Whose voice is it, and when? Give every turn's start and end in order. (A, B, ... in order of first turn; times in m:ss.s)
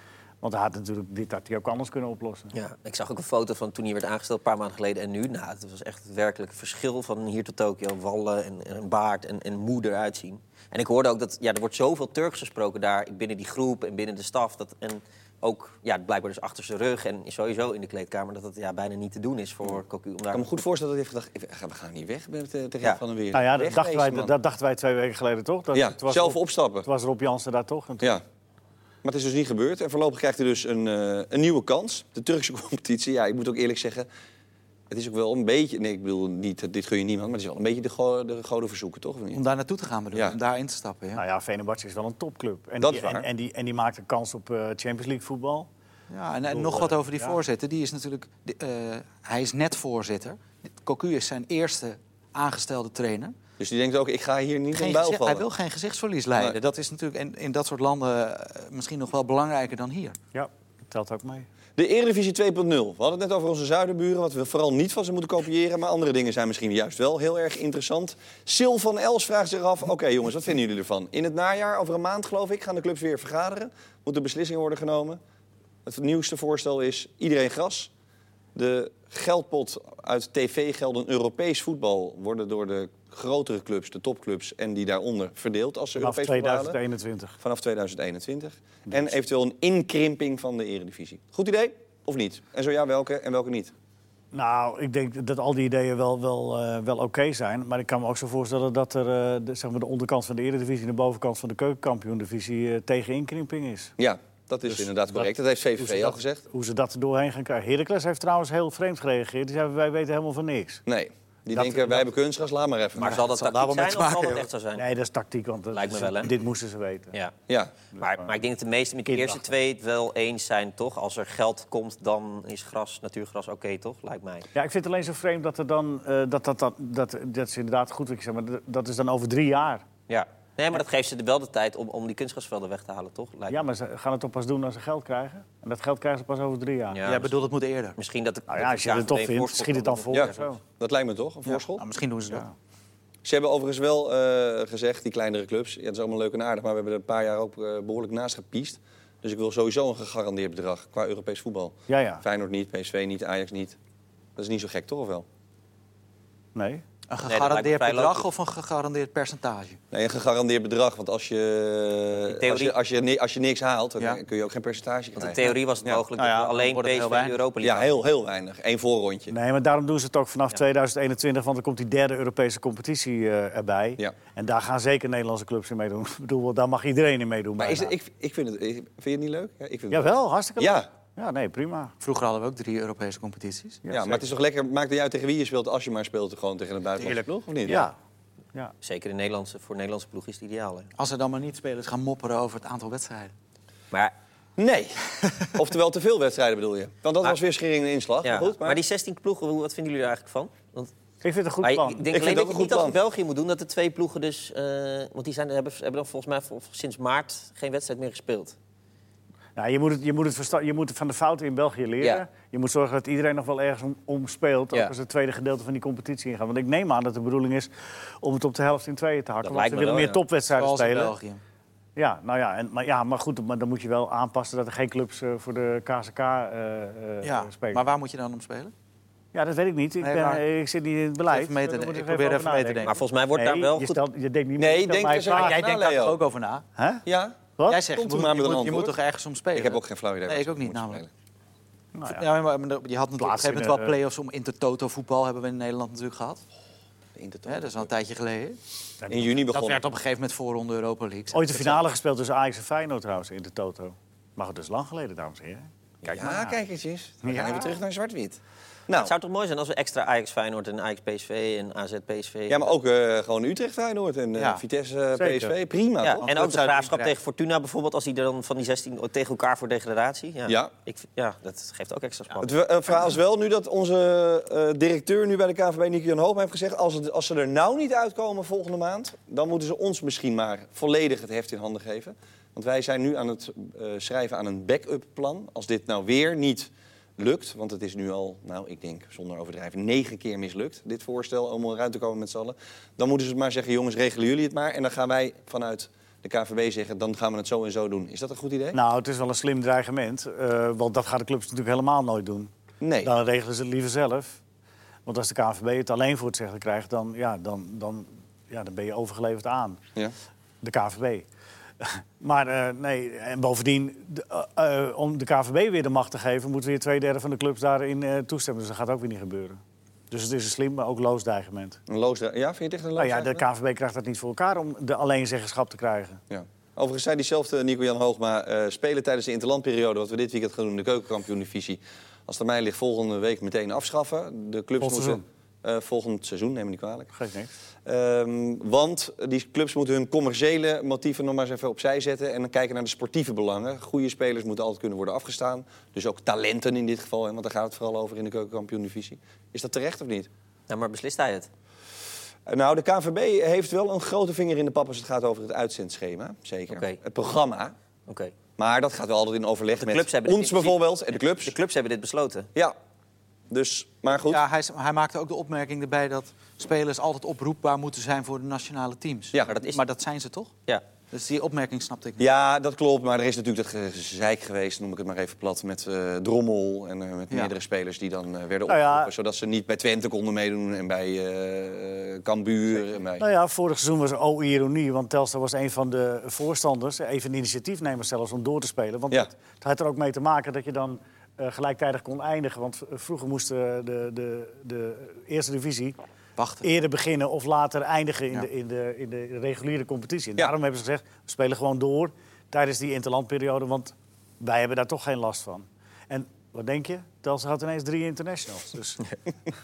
0:00.4-0:02.5 A
0:02.5-0:20.6 B
0:20.3-0:24.3 C
0:23.3-0:28.1 A
0:25.7-0:26.9 C
0:29.0-0:34.1 C
0:34.9-0:39.4 C
0:39.3-0:41.2 D
0:41.2-0:45.7 A
0:42.8-0:43.2 C
0:46.1-0:53.3 D
0:46.5-0:47.4 A
0:53.6-0:55.4 C
0:54.7-1:00.2 D
1:00.3-1:01.5 A
1:01.8-1:15.2 C
1:15.8-1:17.9 C
1:18.5-1:26.8 C
1:26.0-1:27.4 A
1:27.4-1:33.7 C
1:34.3-1:43.9 A
1:44.0-1:46.4 C
1:44.7-1:50.8 A
1:50.8-1:53.2 C
1:51.5-1:52.1 A
1:53.0-1:54.8 B
1:53.0-1:54.5 D
1:54.8-1:57.1 A
1:55.7-1:56.3 B
1:57.5-1:57.7 C
1:58.0-2:04.5 B
1:58.0-1:58.3 A
1:59.1-1:59.4 A
2:04.5-2:09.8 A
2:10.1-2:13.6 B
2:13.5-2:17.0 A
2:16.9-2:17.3 B
2:17.0-2:18.0 D
2:18.0-2:20.4 B
2:18.5-2:20.6 A
2:20.1-2:21.8 C
2:21.4-2:22.4 D
2:23.2-2:33.8 C
2:31.9-2:32.2 A
2:34.4-2:35.2 C
2:36.5-2:36.8 A
2:37.1-2:39.8 D
2:37.2-2:38.3 B
2:39.9-2:46.0 C
2:42.2-2:42.7 B
2:45.2-2:47.9 B
2:46.2-2:47.4 D
2:47.6-2:49.3 C
2:49.3-2:57.9 A
2:57.6-3:00.9 C
2:59.9-3:01.9 A
3:02.0-3:03.8 D
3:03.8-3:04.2 A
3:03.9-3:07.8 C
3:07.6-3:07.9 A
3:08.8-3:10.9 B
3:11.0-3:13.3 D
3:14.6-3:18.8 C
3:18.2-3:20.9 B
3:21.2-3:22.0 A
3:21.6-3:28.6 B
3:22.1-3:23.0 C
3:29.6-3:41.1 A
3:39.4-3:40.2 B
3:40.5-3:41.4 D
3:42.0-3:47.8 A
3:47.2-3:48.7 D
3:49.3-3:55.6 A
3:50.0-3:50.4 D
3:51.3-3:53.0 D
3:52.8-3:54.0 B
3:54.6-3:56.2 C
3:55.2-3:56.6 D
3:56.8-3:57.0 A
3:57.0-3:59.0 C
3:57.7-4:01.0 D
3:59.5-4:01.1 C
4:01.9-4:02.2 A
4:02.1-4:06.4 D
4:03.2-4:04.0 A
4:07.2-4:07.9 C
4:07.4-4:08.6 D
4:09.0-4:09.3 A
4:09.1-4:09.8 C
4:09.5-4:11.8 D
4:11.3-4:16.6 A
4:16.0-4:19.1 C
4:17.2-4:17.8 A
4:19.0-4:22.7 B
4:22.5-4:26.3 C
4:24.4-4:24.6 D
4:25.2-4:25.5 A
4:26.0-4:32.5 B
4:26.2-4:27.1 D
4:32.4-4:58.8 C
4:58.7-5:02.5 A
5:02.8-5:03.1 C
5:03.0-5:04.4 A
5:05.0-5:09.8 A
5:10.6-5:11.2 A
5:11.8-5:19.6 A
5:20.1-5:21.8 A
5:21.9-5:23.4 C
5:23.0-5:26.2 A
5:26.3-5:37.1 C
5:34.8-5:35.2 A
5:37.1-5:37.5 A
5:37.8-5:50.3 C
5:50.7-5:51.5 B
5:52.5-5:57.7 C
5:56.7-5:57.0 B
5:58.1-5:58.4 B
5:58.6-6:01.5 C
5:59.8-6:02.5 B
6:03.5-6:04.4 C
6:04.3-6:10.5 D
6:09.5-6:09.8 B
6:11.1-6:12.2 D
6:12.2-6:23.2 C
6:18.7-6:19.1 A
6:23.2-6:36.0 A
6:36.4-6:36.6 D
6:36.6-6:49.0 A